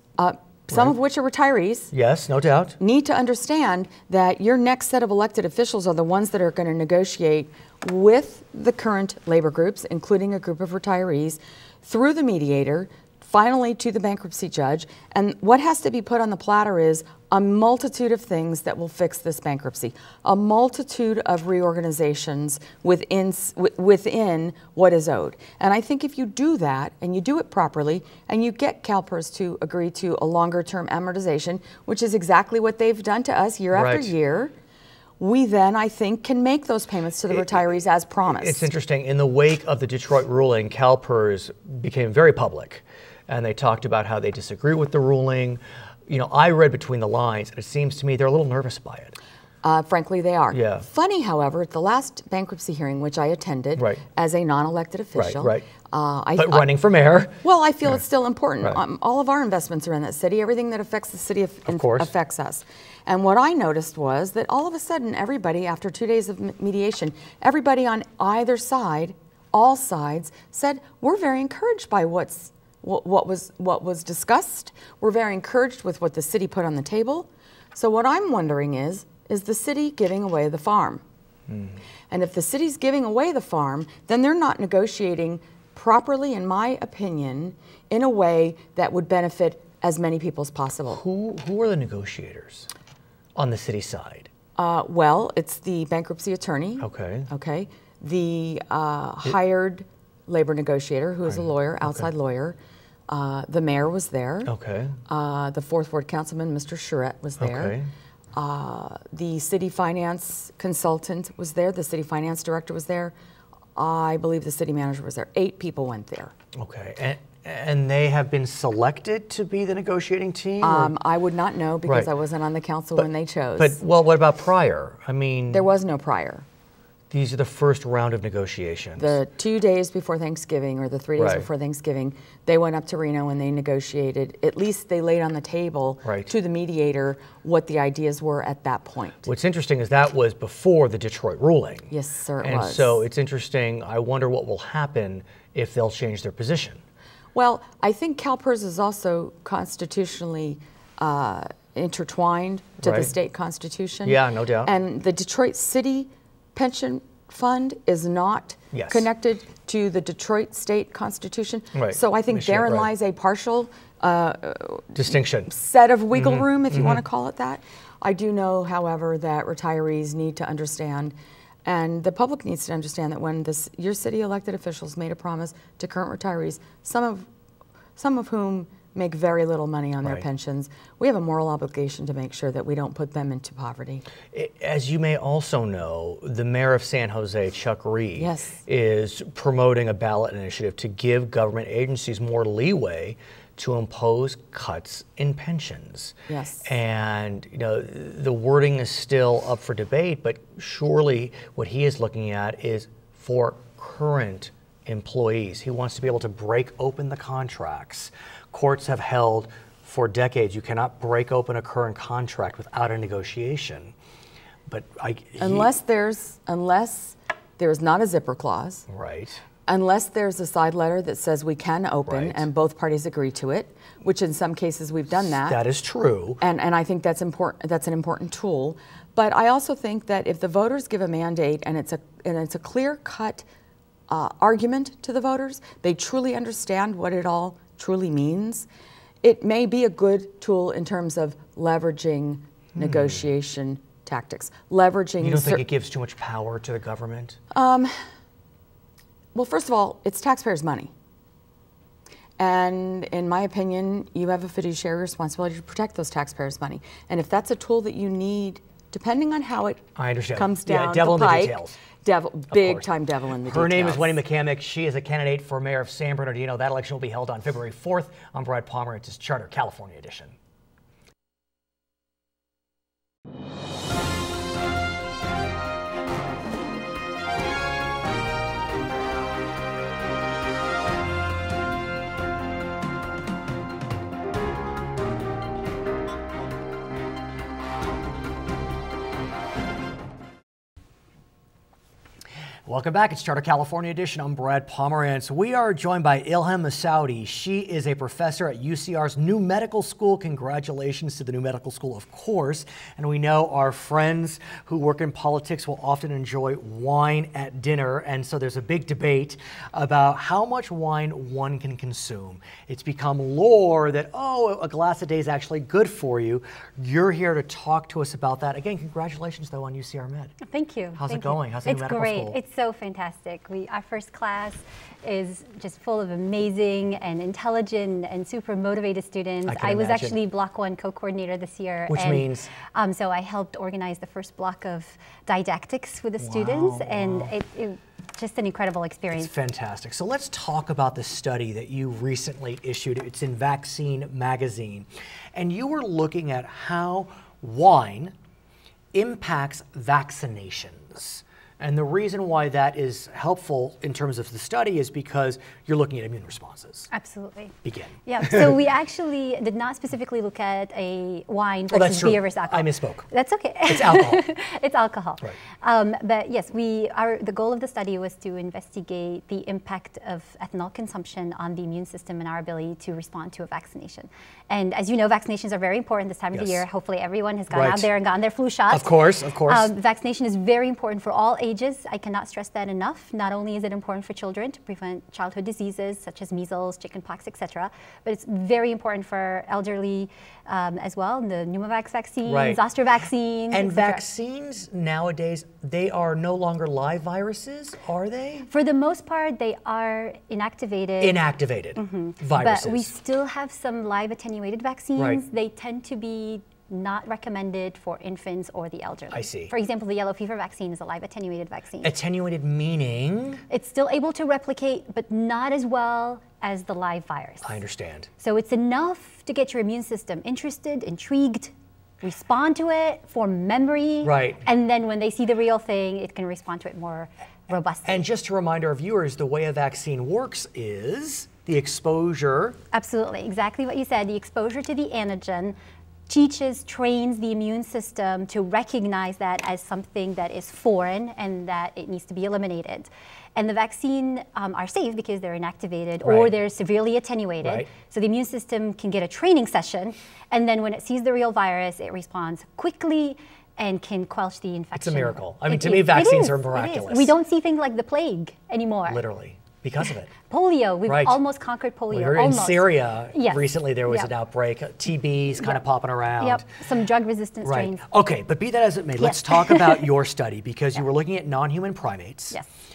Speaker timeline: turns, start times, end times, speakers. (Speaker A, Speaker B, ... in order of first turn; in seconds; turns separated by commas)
Speaker A: 0.2-1.9, Speaker B: 1.9-2.8, Speaker A: 2.8-34.5, Speaker B: 33.7-34.1, Speaker A: 35.2-38.7, Speaker B: 37.4-37.6, Speaker B: 38.3-49.1, Speaker A: 49.6-56.7, Speaker B: 50.5-50.9, Speaker B: 53.8-54.0, Speaker B: 55.1-55.6, Speaker B: 56.4-57.4, Speaker A: 57.4-81.0, Speaker B: 61.7-62.1, Speaker B: 81.5-81.8, Speaker A: 82.1-91.0, Speaker B: 91.0-92.7, Speaker B: 93.4-94.3, Speaker A: 94.6-102.6, Speaker B: 96.8-97.3, Speaker B: 101.3-102.1, Speaker A: 103.1-104.5, Speaker B: 104.5-105.0, Speaker A: 105.1-107.8, Speaker B: 107.4-107.9, Speaker A: 108.3-113.1, Speaker A: 113.8-116.3, Speaker B: 116.5-120.9, Speaker A: 120.6-123.8, Speaker B: 121.8-122.1, Speaker B: 123.0-125.7, Speaker A: 125.5-126.4, Speaker B: 127.1-129.2, Speaker A: 129.0-139.3, Speaker B: 131.2-131.4, Speaker B: 136.0-136.3, Speaker B: 139.2-141.9, Speaker A: 141.9-143.0, Speaker B: 142.4-146.8, Speaker A: 147.3-177.3, Speaker B: 152.8-153.1, Speaker B: 154.1-154.7, Speaker B: 158.7-159.1, Speaker B: 161.7-162.9, Speaker B: 164.9-165.5, Speaker B: 166.1-167.0, Speaker A: 178.0-184.0, Speaker B: 184.3-213.9, Speaker A: 188.2-188.6, Speaker A: 196.3-196.7, Speaker B: 214.7-215.7, Speaker A: 215.4-218.8, Speaker B: 218.9-219.4, Speaker A: 219.7-225.6, Speaker B: 222.1-222.4, Speaker B: 225.4-226.4, Speaker A: 226.4-233.4, Speaker A: 234.1-238.7, Speaker A: 239.2-245.6, Speaker B: 242.8-243.2, Speaker B: 245.2-247.4, Speaker A: 247.5-248.1, Speaker A: 249.3-250.9, Speaker A: 252.4-264.2, Speaker B: 259.9-261.8, Speaker B: 262.5-262.9, Speaker B: 263.4-270.4, Speaker B: 292.6-320.4, Speaker C: 320.4-339.3, Speaker B: 321.0-322.4, Speaker B: 329.4-330.1, Speaker B: 331.9-332.5, Speaker B: 336.2-337.3, Speaker B: 339.1-348.1, Speaker B: 348.9-356.9, Speaker C: 356.9-357.6, Speaker B: 357.6-358.7, Speaker C: 358.1-394.0, Speaker B: 361.7-363.1, Speaker B: 363.6-364.2, Speaker B: 376.3-376.6, Speaker B: 377.5-377.9, Speaker B: 378.7-379.7, Speaker B: 392.2-392.6, Speaker B: 393.5-398.5, Speaker C: 398.5-401.2, Speaker B: 401.0-402.9, Speaker C: 401.8-411.9, Speaker B: 409.1-409.5, Speaker B: 411.8-413.4, Speaker C: 413.5-417.6, Speaker B: 417.4-418.1, Speaker C: 418.2-428.1, Speaker B: 424.0-424.4, Speaker B: 427.9-432.6, Speaker C: 432.7-435.6, Speaker C: 436.1-459.0, Speaker B: 446.0-446.3, Speaker B: 447.4-447.7, Speaker B: 454.8-457.1, Speaker B: 458.9-460.1, Speaker C: 460.2-464.1, Speaker B: 460.9-461.2, Speaker B: 461.9-466.4, Speaker C: 466.2-467.8, Speaker B: 467.4-472.4, Speaker C: 469.0-469.9